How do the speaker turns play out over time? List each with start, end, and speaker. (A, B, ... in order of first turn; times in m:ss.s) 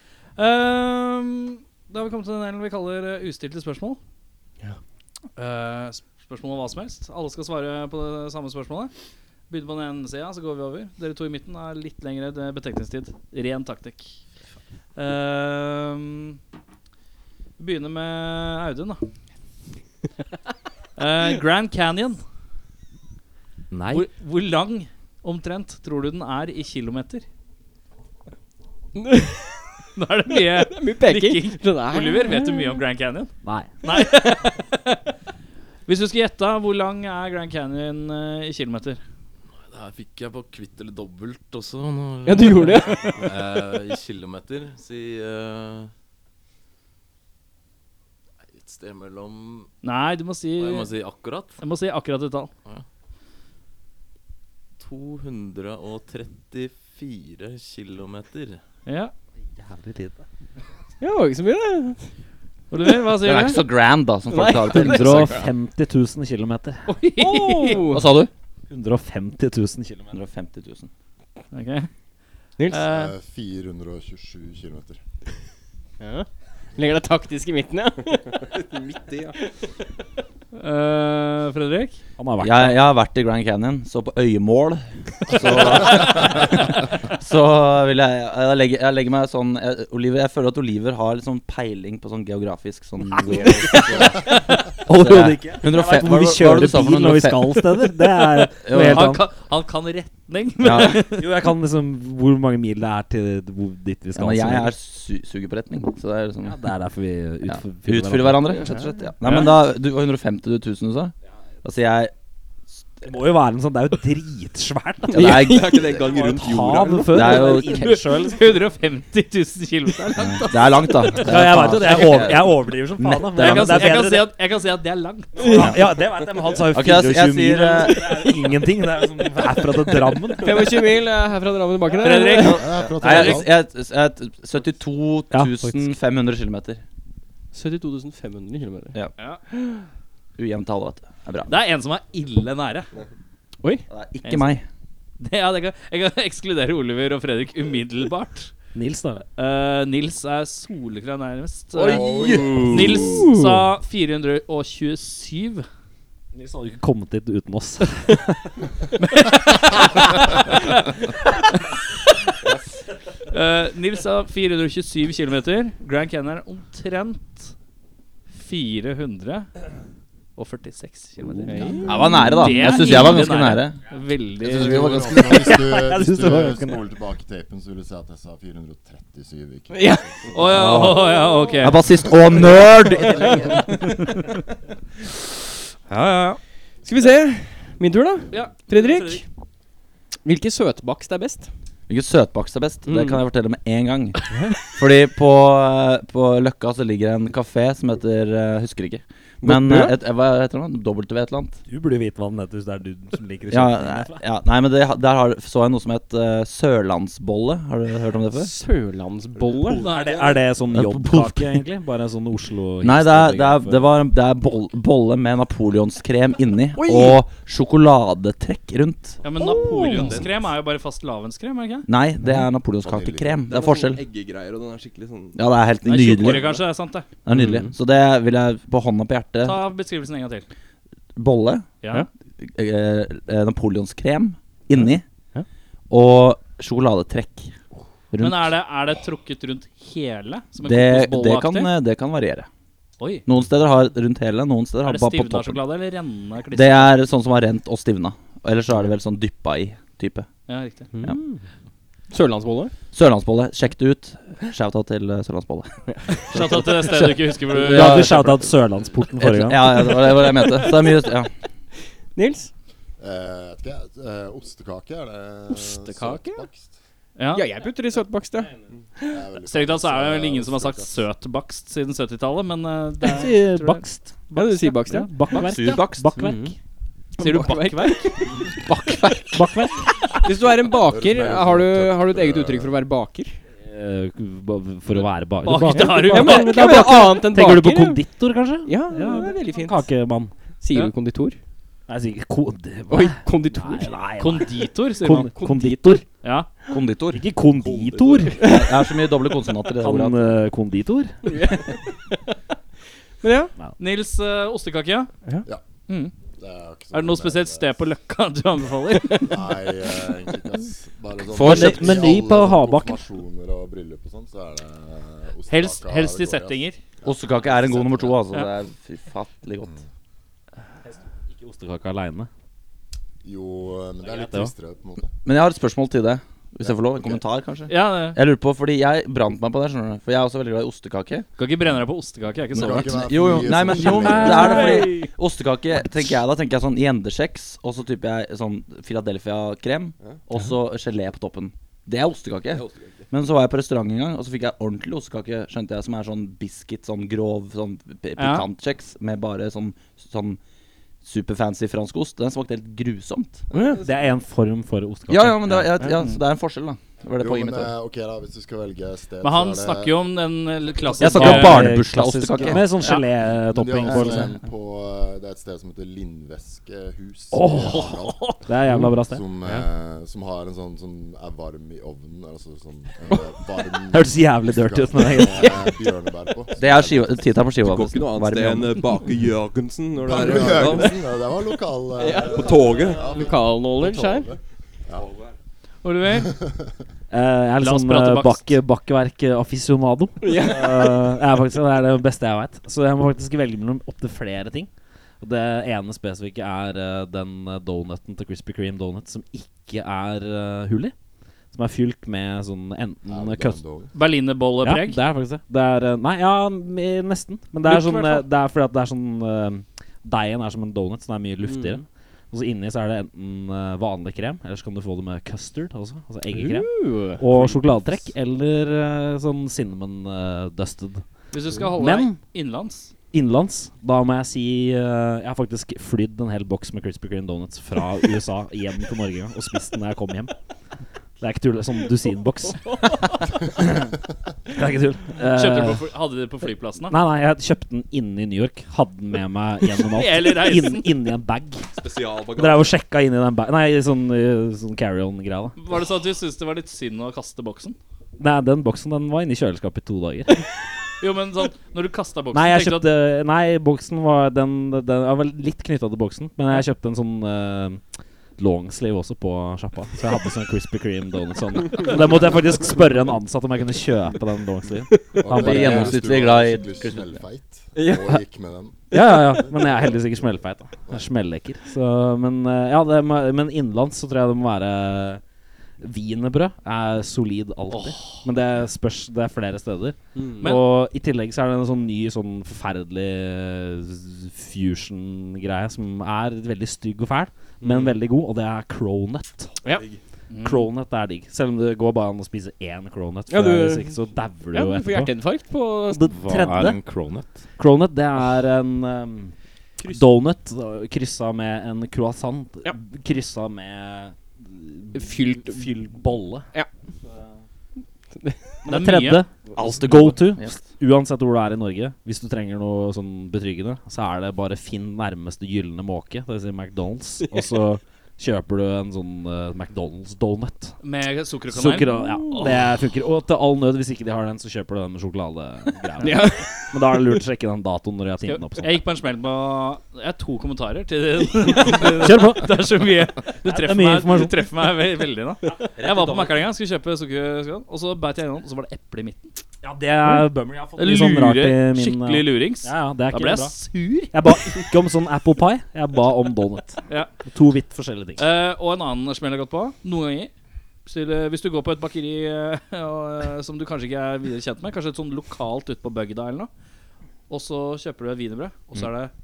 0:00.4-0:04.0 A
0:05.4-0:08.9 A
0:09.5-0:14.1 A
0:15.0-0:16.4 A
0:17.6-0:19.0 A
0:21.0-0:22.2 A
0:23.7-0:24.0 B
0:23.9-0:27.2 A
0:29.0-0:29.6 C
0:30.0-0:35.0 A
0:30.3-0:32.8 C
0:33.4-0:33.7 D
0:35.9-0:39.0 A
0:39.6-0:45.9 B
0:42.2-0:43.2 C
0:48.5-0:49.7 B
0:49.8-0:50.9 A
0:50.6-0:51.6 B
0:51.6-0:52.5 A
0:54.8-0:58.6 B
0:58.9-0:59.1 A
0:59.6-1:00.2 D
1:01.0-1:02.1 C
1:02.7-1:03.6 A
1:03.2-1:05.5 E
1:04.3-1:05.5 C
1:04.7-1:06.9 D
1:06.9-1:07.9 A
1:07.2-1:08.1 C
1:07.9-1:08.3 E
1:08.7-1:10.2 D
1:10.1-1:10.9 E
1:11.5-1:11.9 A
1:12.6-1:12.9 C
1:12.7-1:13.1 A
1:12.8-1:15.0 F
1:16.0-1:19.5 C
1:19.0-1:19.3 G
1:20.5-1:22.0 A
1:22.2-1:22.8 D
1:22.4-1:37.8 E
1:25.5-1:26.1 F
1:33.4-1:39.2 D
1:33.7-1:34.6 A
1:38.6-1:39.2 E
1:38.8-1:41.3 A
1:40.6-1:41.1 E
1:41.0-1:44.7 D
1:44.2-1:46.6 E
1:46.4-1:48.7 D
1:47.5-1:52.1 E
1:53.0-1:58.5 D
1:55.1-1:56.1 E
1:55.1-1:57.3 G
1:57.1-1:58.0 E
1:57.6-2:01.2 A
2:00.2-2:04.0 E
2:01.2-2:04.3 D
2:03.4-2:05.6 A
2:05.4-2:10.8 D
2:05.4-2:05.7 C
2:05.5-2:05.8 E
2:06.7-2:08.3 E
2:10.4-2:12.7 C
2:12.0-2:13.4 A
2:12.1-2:16.8 E
2:12.5-2:13.5 F
2:15.3-2:15.8 D
2:17.5-2:19.0 C
2:19.5-2:19.8 C
2:20.4-2:21.5 E
2:21.5-2:22.9 A
2:23.9-2:24.6 E
2:24.2-2:24.6 A
2:25.2-2:28.5 A
2:28.7-2:29.2 D
2:29.4-2:35.7 A
2:31.9-2:33.1 E
2:31.9-2:32.8 F
2:31.9-2:33.6 C
2:36.3-2:38.5 D
2:39.0-2:40.8 A
2:43.3-2:47.5 A
2:48.4-2:49.5 A
2:50.4-2:54.9 A
2:51.4-2:53.0 D
2:51.5-2:52.1 C
2:51.8-2:53.8 E
2:54.4-2:55.6 E
2:54.4-3:00.9 F
2:55.7-2:56.9 D
2:59.7-3:00.1 C
3:00.3-3:01.8 A
3:00.4-3:03.7 E
3:03.0-3:03.5 F
3:03.3-3:03.6 C
3:05.9-3:06.4 A
3:06.8-3:09.2 C
3:08.3-3:09.2 A
3:10.2-3:11.5 C
3:11.9-3:21.6 E
3:12.9-3:13.2 C
3:19.4-3:20.0 C
3:21.7-3:24.2 D
3:23.5-3:28.5 E
3:28.4-3:29.9 C
3:29.8-3:33.9 D
3:29.8-3:30.4 A
3:30.7-3:31.6 E
3:32.8-3:39.2 E
3:36.7-3:37.2 C
3:39.2-3:41.9 A
3:39.4-3:40.3 C
3:41.9-3:44.0 E
3:42.8-3:43.5 F
3:43.5-3:45.4 G
3:45.4-3:46.6 E
3:45.8-3:47.1 A
3:46.2-3:46.5 G
3:47.2-3:49.6 E
3:47.3-3:47.7 C
3:49.4-3:50.5 A
3:51.2-3:51.7 E
3:51.8-3:52.1 A
3:52.4-3:55.0 E
3:55.9-3:57.5 E
3:58.1-3:58.6 E
3:58.2-4:01.7 A
4:00.6-4:02.5 E
4:03.0-4:03.2 A
4:03.3-4:05.6 E
4:04.8-4:07.0 A
4:06.5-4:10.3 E
4:10.5-4:10.9 A
4:11.0-4:11.4 D
4:12.1-4:12.7 C
4:12.9-4:15.7 E
4:15.9-4:16.6 C
4:16.2-4:18.4 E
4:16.3-4:18.2 A
4:17.5-4:18.0 C
4:17.7-4:20.1 D
4:19.2-4:21.3 E
4:20.2-4:21.1 C
4:22.2-4:22.5 C
4:23.0-4:26.7 F
4:25.5-4:26.5 C
4:27.2-4:27.5 A
4:27.3-4:28.5 C
4:29.0-4:31.0 F
4:29.4-4:33.8 A
4:33.1-4:36.6 D
4:34.3-4:36.5 C
4:35.4-4:36.1 E
4:37.2-4:39.5 C
4:37.2-4:38.4 A
4:39.3-4:40.2 D
4:40.2-4:43.4 C
4:40.9-4:42.8 F
4:43.6-4:50.3 D
4:45.4-4:46.6 A
4:45.7-4:48.0 C
4:48.6-4:49.9 C
4:49.0-4:49.3 A
4:50.6-4:51.4 C
4:51.9-4:56.0 D
4:52.9-4:54.0 C
4:54.2-4:55.3 A
4:55.0-4:56.0 C
4:56.2-4:56.5 A
4:56.7-4:57.2 E
4:57.1-4:58.5 D
4:57.7-4:58.3 G
4:58.4-4:58.8 C
4:58.4-5:00.4 E
4:59.8-5:01.2 D
5:01.2-5:02.2 C
5:03.2-5:03.5 C
5:03.8-5:05.1 A
5:05.9-5:06.1 A
5:06.4-5:07.8 F
5:06.9-5:09.4 A
5:09.2-5:18.3 F
5:11.3-5:13.0 D
5:11.4-5:12.0 E
5:15.5-5:16.8 A
5:17.0-5:19.8 E
5:20.8-5:22.3 D
5:23.2-5:25.1 F
5:24.0-5:24.5 D
5:25.2-5:31.3 E
5:26.6-5:27.2 F
5:27.7-5:28.2 A
5:31.4-5:33.1 A
5:32.5-5:34.6 F
5:32.5-5:50.4 E
5:33.5-5:35.0 D
5:34.1-5:35.1 A
5:42.5-5:43.0 G
5:48.2-5:48.5 A
5:51.0-5:53.4 E
5:53.5-5:53.8 C
5:53.8-5:55.9 D
5:55.1-5:57.7 E
5:57.2-6:00.0 F
5:59.2-6:01.8 A
6:01.0-6:02.8 E
6:01.0-6:04.4 D
6:02.4-6:17.2 F
6:02.8-6:03.1 A
6:07.3-6:09.2 D
6:13.9-6:15.8 D
6:16.6-6:18.9 E
6:17.6-6:21.0 G
6:20.0-6:25.1 F
6:22.0-6:24.3 C
6:22.3-6:23.1 G
6:25.8-6:26.3 A
6:26.2-6:26.7 F
6:27.1-6:34.7 D
6:27.6-6:28.5 A
6:30.2-6:31.1 C
6:35.2-6:40.9 D
6:41.5-6:43.6 D
6:43.1-6:43.9 F
6:43.9-6:45.0 A
6:44.6-7:01.0 D
6:47.7-6:48.2 A
6:51.4-6:51.8 C
6:56.3-6:58.1 C
7:01.3-7:02.9 A
7:01.7-7:02.2 D
7:03.1-7:10.3 D
7:11.2-7:13.9 D
7:12.7-7:13.2 C
7:14.5-7:15.9 D
7:15.2-7:17.0 A
7:16.9-7:21.7 D
7:19.8-7:20.9 A
7:21.8-7:22.7 G
7:22.3-7:25.6 D
7:25.6-7:27.8 A
7:28.2-7:30.5 D
7:31.0-7:32.9 A
7:32.3-7:37.8 D
7:38.4-7:46.0 D
7:45.1-7:49.9 F
7:45.3-7:47.2 E
7:47.8-7:48.2 C
7:48.9-7:55.2 D
7:49.0-7:49.4 C
7:55.8-8:09.6 D
7:57.7-7:58.2 A
8:00.2-8:00.6 C
8:10.3-8:10.7 A
8:10.4-8:15.1 D
8:13.3-8:16.1 C
8:15.9-8:16.8 D
8:16.1-8:17.4 B
8:17.6-8:26.5 D
8:19.8-8:20.1 C
8:24.9-8:25.8 C
8:28.2-8:28.6 C
8:28.6-8:40.8 D
8:28.7-8:29.2 A
8:29.6-8:30.6 E
8:37.3-8:37.5 C
8:40.8-8:42.5 A
8:41.5-8:48.8 D
8:46.0-8:46.5 C
8:48.3-8:59.4 A
8:51.8-8:52.6 D
8:53.4-8:54.4 D
8:55.8-8:56.3 E
8:59.6-9:03.6 D
9:00.0-9:04.2 A
9:04.1-9:08.2 D
9:08.2-9:10.3 A
9:10.9-9:16.5 A
9:17.3-9:19.1 A